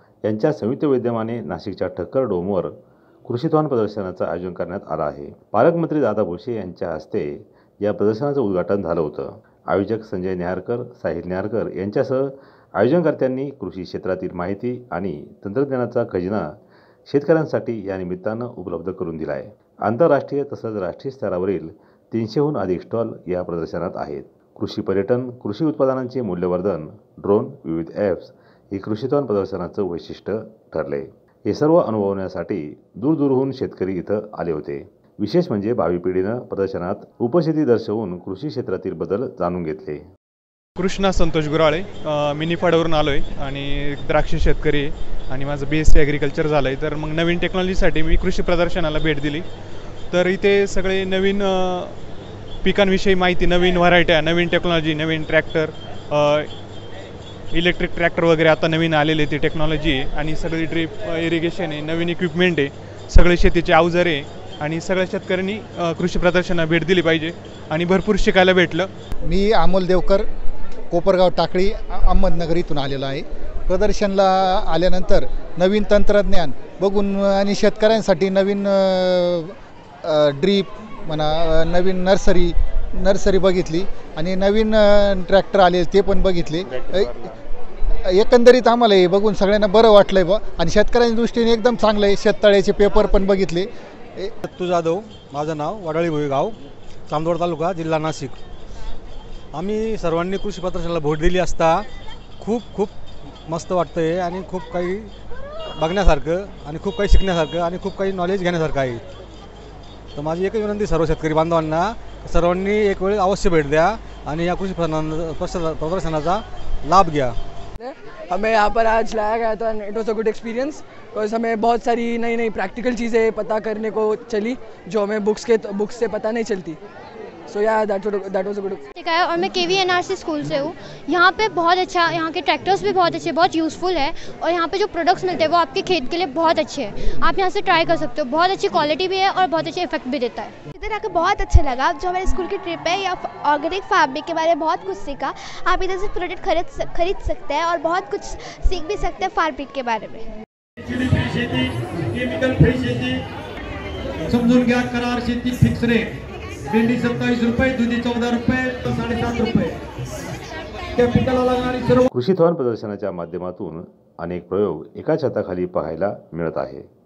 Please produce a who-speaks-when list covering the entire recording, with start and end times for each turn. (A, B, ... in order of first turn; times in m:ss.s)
0:00.2-0:02.7 A
0:03.3-0:16.5 A
0:17.1-0:40.0 A
0:40.8-0:49.5 B
0:50.1-0:52.0 B
0:52.6-0:56.5 B
0:57.5-1:08.9 B
1:09.3-1:10.2 C
1:10.9-1:27.3 C
1:28.0-1:34.3 C
1:34.4-1:36.6 D
1:37.1-1:38.4 D
1:39.5-1:41.9 D
1:42.4-1:45.1 D
1:45.7-1:49.0 D
1:50.2-1:57.4 D
1:57.8-2:06.8 E
2:07.5-2:08.8 E
2:09.0-2:20.5 F
2:20.7-2:30.3 G
2:30.8-2:33.2 H
2:34.3-2:36.1 H
2:36.7-2:39.8 H
2:40.9-2:42.1 H
2:42.1-2:46.9 A